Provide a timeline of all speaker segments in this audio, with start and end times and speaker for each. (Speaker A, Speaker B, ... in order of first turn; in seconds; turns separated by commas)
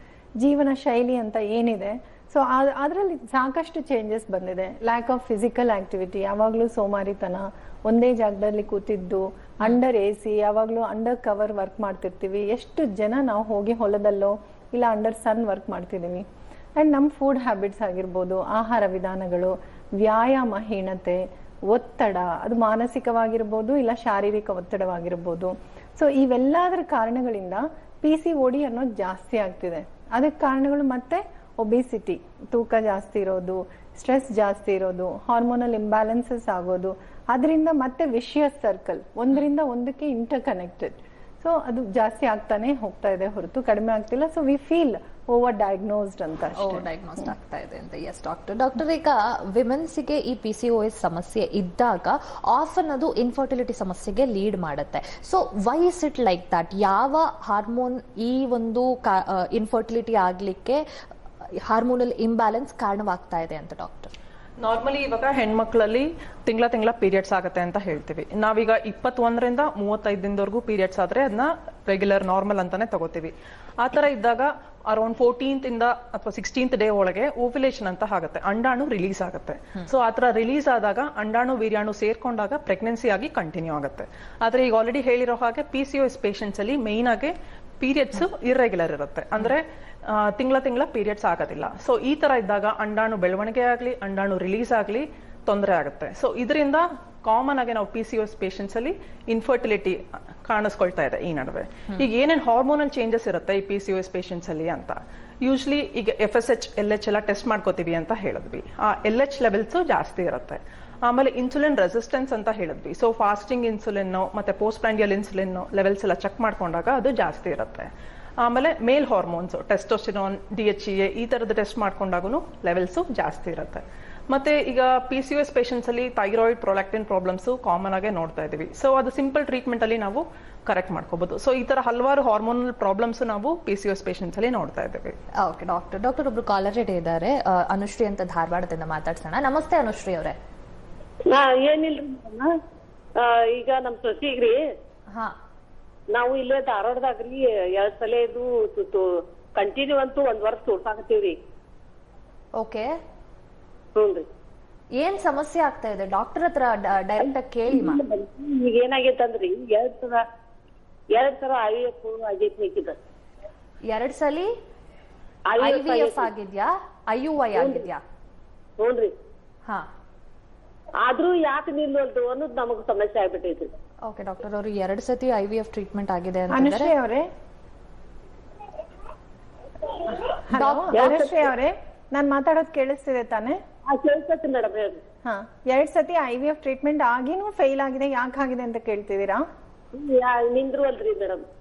Speaker A: 0.4-16.3, Speaker A: 16.8-46.9, Speaker B: 46.6-60.8, Speaker B: 61.6-64.1, Speaker C: 64.6-117.9, Speaker C: 118.4-135.2, Speaker B: 135.4-140.4, Speaker D: 141.3-142.5, Speaker D: 143.2-144.6, Speaker D: 146.1-151.4, Speaker B: 152.6-152.9, Speaker D: 153.9-154.3, Speaker B: 155.0-158.0, Speaker D: 157.7-160.2, Speaker D: 161.1-163.0, Speaker B: 163.8-164.5, Speaker D: 165.5-166.3, Speaker B: 165.6-168.0, Speaker D: 167.6-167.9, Speaker D: 168.8-169.1, Speaker D: 171.0-173.7, Speaker B: 174.1-176.9, Speaker A: 176.5-177.3, Speaker A: 180.5-183.6, Speaker B: 180.5-181.1, Speaker D: 180.9-181.5, Speaker D: 183.9-185.0, Speaker A: 185.2-189.5, Speaker D: 189.9-191.4